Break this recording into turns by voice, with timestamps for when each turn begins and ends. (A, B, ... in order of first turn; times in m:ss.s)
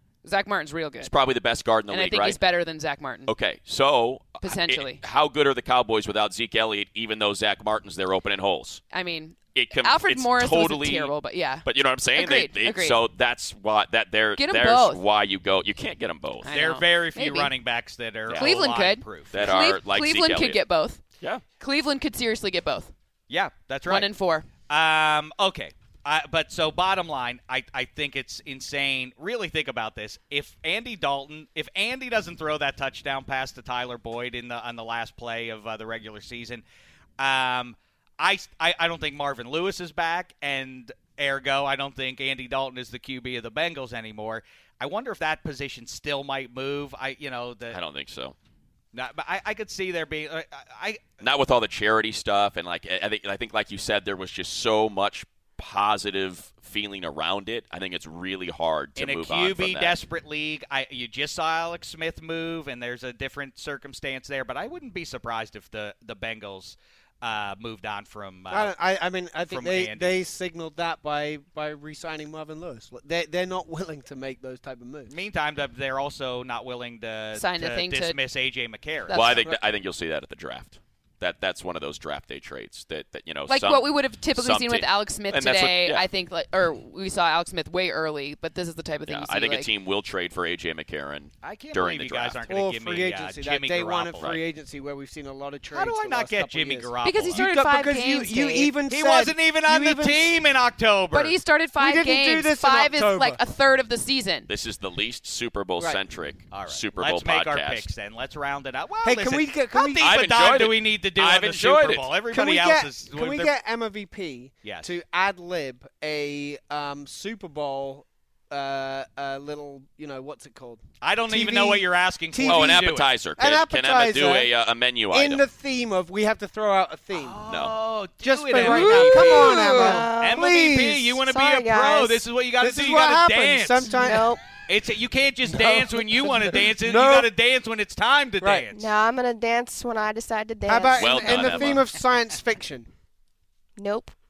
0:00.2-0:01.1 A
0:01.0-0:02.4 B
0:01.9-0:03.3 A
0:03.2-0:08.8 B
0:04.4-0:05.0 A
0:08.9-0:13.0 A
0:09.5-0:11.1 B
0:11.6-0:16.5 B
0:14.4-0:15.0 A
0:16.4-0:17.5 A
0:16.5-0:19.5 C
0:18.3-0:18.5 B
0:18.3-0:21.0 A
0:19.3-0:20.6 B
0:21.2-0:21.4 B
0:21.6-0:22.9 A
0:23.3-0:24.1 C
0:23.8-0:24.5 A
0:24.7-0:36.6 C
0:37.2-0:47.8 C
0:47.7-0:48.3 B
0:48.9-0:51.0 C
0:51.2-1:00.0 B
0:59.0-1:08.7 C
1:08.5-1:15.1 D
1:09.5-1:10.2 C
1:15.1-1:19.4 C
1:17.3-1:18.2 A
1:19.1-1:19.5 A
1:19.1-1:26.0 B
1:23.5-1:29.7 A
1:29.1-1:32.4 B
1:31.4-1:34.4 C
1:32.5-1:40.4 D
1:35.7-1:37.5 C
1:37.0-1:38.7 A
1:38.9-1:41.3 C
1:41.1-1:44.5 A
1:41.8-1:43.4 D
1:44.5-1:47.9 B
1:46.5-1:53.5 C
1:49.0-1:50.1 D
1:50.0-1:52.1 B
1:52.3-2:04.5 D
1:54.6-1:54.9 C
2:01.0-2:03.1 C
2:02.4-2:05.4 B
2:05.1-2:07.4 D
2:07.1-2:18.9 C
2:07.5-2:07.7 B
2:08.2-2:11.2 D
2:09.7-2:10.5 E
2:11.2-2:12.2 E
2:12.6-2:14.4 D
2:13.9-2:14.4 E
2:15.5-2:17.3 D
2:18.4-2:18.6 D
2:18.7-2:21.7 E
2:20.6-2:22.9 D
2:21.0-2:21.8 B
2:23.8-2:24.1 E